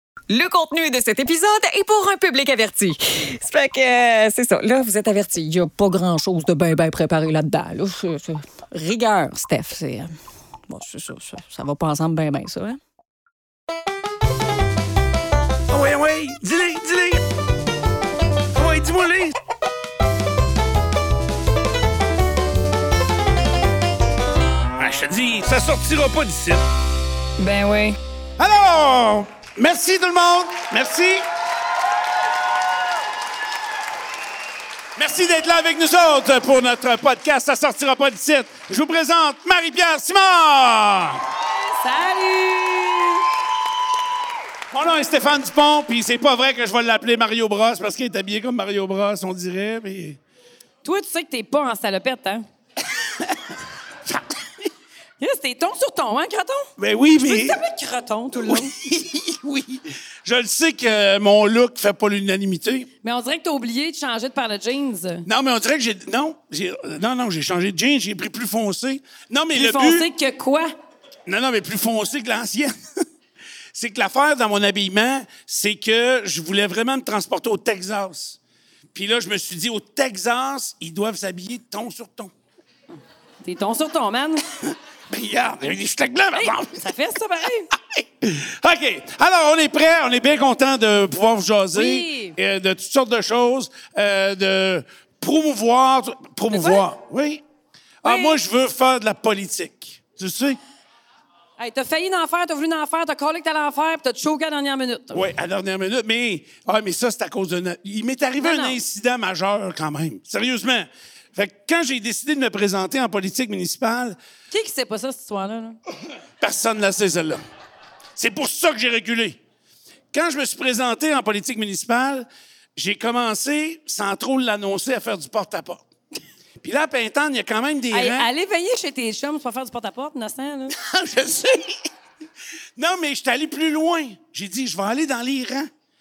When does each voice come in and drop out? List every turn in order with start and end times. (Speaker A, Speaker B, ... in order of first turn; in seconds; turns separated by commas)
Speaker A: 0.3-10.2, Speaker A: 10.7-12.8, Speaker B: 15.7-17.2, Speaker B: 18.5-19.4, Speaker B: 24.8-26.7, Speaker C: 27.4-28.0, Speaker B: 28.4-31.3, Speaker B: 35.0-41.2, Speaker C: 41.5-43.3, Speaker B: 44.7-50.2, Speaker C: 50.8-52.5, Speaker B: 53.0-53.5, Speaker B: 54.1-54.5, Speaker C: 55.2-58.7, Speaker B: 56.8-57.6, Speaker B: 58.4-62.9, Speaker C: 63.0-65.3, Speaker B: 65.3-70.1, Speaker C: 69.5-70.7, Speaker B: 71.3-72.7, Speaker B: 73.7-78.4, Speaker B: 78.9-82.3, Speaker C: 83.4-84.4, Speaker B: 85.1-87.0, Speaker C: 86.3-87.7, Speaker B: 87.7-97.4, Speaker C: 91.7-92.4, Speaker C: 96.5-96.9, Speaker B: 98.0-100.6, Speaker C: 98.0-98.4, Speaker C: 101.6-105.3, Speaker B: 105.1-114.2, Speaker C: 108.4-108.8, Speaker C: 114.5-115.8, Speaker B: 116.4-117.4, Speaker B: 118.2-119.4, Speaker B: 120.1-125.8, Speaker B: 126.6-128.3, Speaker C: 127.9-130.8, Speaker B: 130.7-131.9, Speaker B: 132.8-135.7